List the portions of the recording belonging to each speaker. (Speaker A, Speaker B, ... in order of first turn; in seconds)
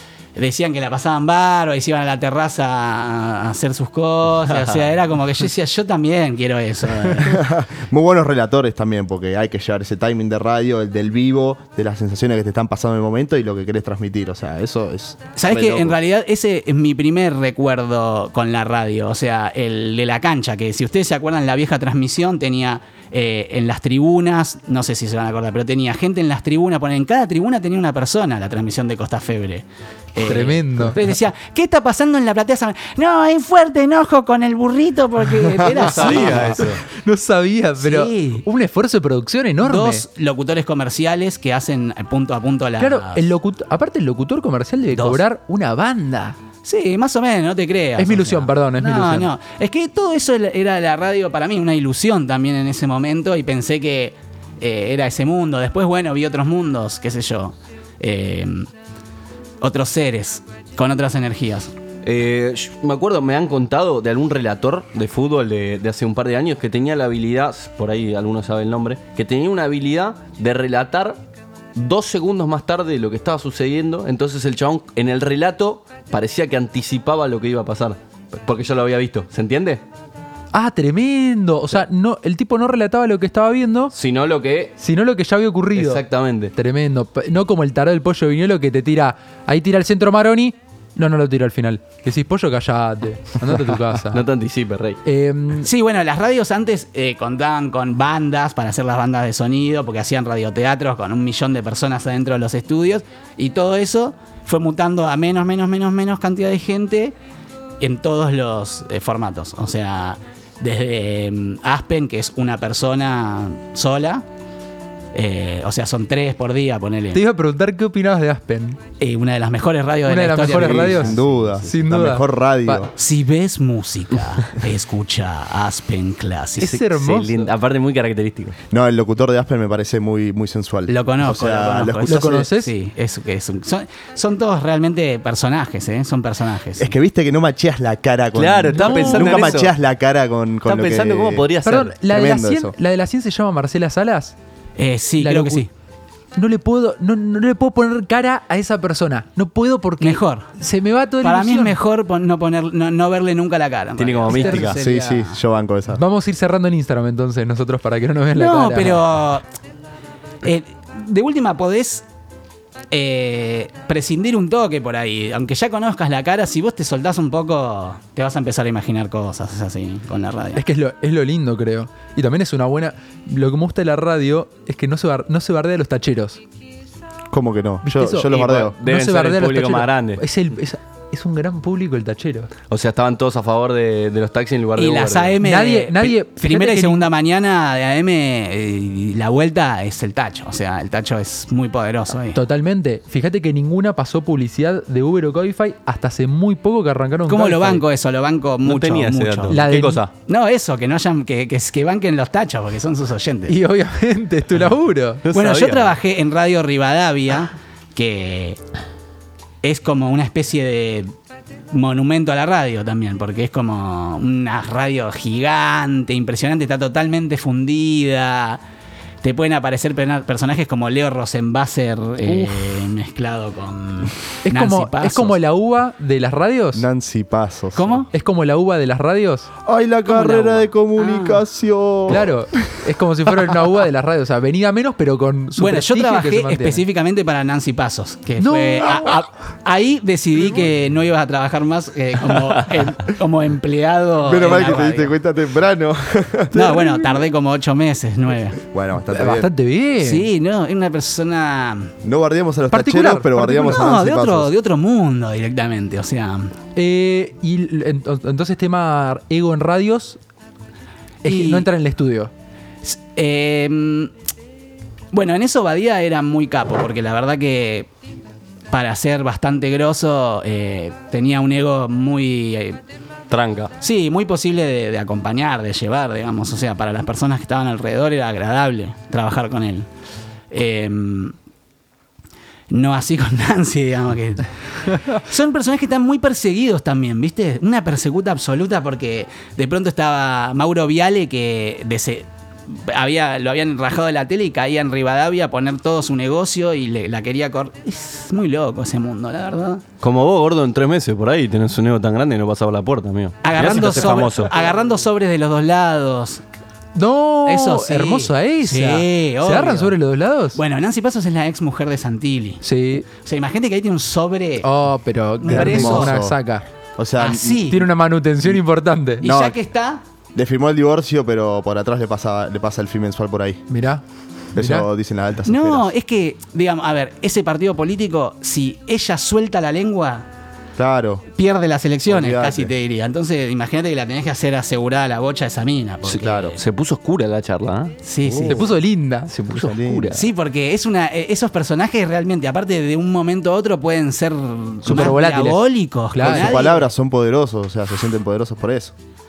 Speaker A: 0.4-7.4, 15.4-36.7, 37.8-38.4, 39.6-43.2, 44.9-45.2, 46.6-58.7, 59.6-61.7, 95.6-107.2, 107.8-114.2, 115.1-117.2, 119.0-121.7, 123.0-126.8, 130.9-136.9, 144.8-145.7, 150.0-150.5, 151.2-155.3, 158.3-159.4, 160.4-162.0, 162.9-170.6, 184.8-192.4, 197.3-199.6, 200.3-203.6, 205.3-208.6, 209.6-211.1, 211.7-218.6, 219.2-225.4, 227.8-228.1, 230.1-231.4, 235.6-245.1, 246.5-248.6, 250.0-251.9, 253.3-256.5, 261.2-261.7, 262.8-264.1, 265.1-267.9, 268.7-272.8, 273.8-279.9, 280.5-281.3, 282.7-299.8, 303.4-306.4, 307.5-310.0, 310.5-314.7, 315.4-316.1, 317.2-317.9, 319.2-320.0, 325.5-330.2, 331.4-336.6, 338.0-338.6, 340.1-346.9
Speaker B: 7.3-16.0, 120.5-122.9, 128.7-132.5, 136.8-141.5, 142.0-142.7, 154.7-156.0, 177.3-178.7, 226.7-228.1, 229.7-232.3, 244.2-247.0, 248.7-249.5, 252.0-254.5, 315.4-316.4, 317.0-317.8, 319.2-319.6, 320.4-323.6, 324.6-325.9, 330.8-331.2, 332.1-332.7, 336.2-336.6, 338.2-338.6, 339.5-340.3, 346.2-348.9
Speaker C: 30.2-31.0, 37.0-40.0, 42.8-46.4, 48.0-49.3, 80.5-83.9, 84.8-86.0, 86.5-94.2, 95.0-95.7, 117.1-118.8, 120.1-122.8, 126.6-127.5, 132.1-132.7, 138.7-139.5, 141.6-144.4, 145.2-145.7, 146.4-151.8, 154.3-154.8, 155.9-159.0, 170.6-176.4, 177.8-182.5, 185.4-187.1, 192.3-197.8, 199.5-200.0, 203.5-205.2, 222.2-222.8, 224.4-226.9, 228.1-229.5, 232.1-236.8, 238.4-239.1, 249.1-250.3, 252.7-253.6, 256.8-260.2, 261.2-262.3, 303.6-304.3, 307.0-310.6, 312.6-313.1, 314.6-316.6, 317.7-319.3, 323.7-324.0, 324.6-324.9, 338.5-339.3, 344.9-346.6
Speaker D: 35.7-36.8, 62.0-71.2, 71.8-79.8, 83.9-84.8, 85.8-86.5, 94.1-95.0, 126.9-128.6, 138.3-139.8, 140.7-141.9, 154.0-154.8, 178.3-180.2, 182.7-185.4, 198.6-200.1, 205.2-206.0, 273.3-273.7, 300.0-304.5, 336.1-337.9, 339.3-340.2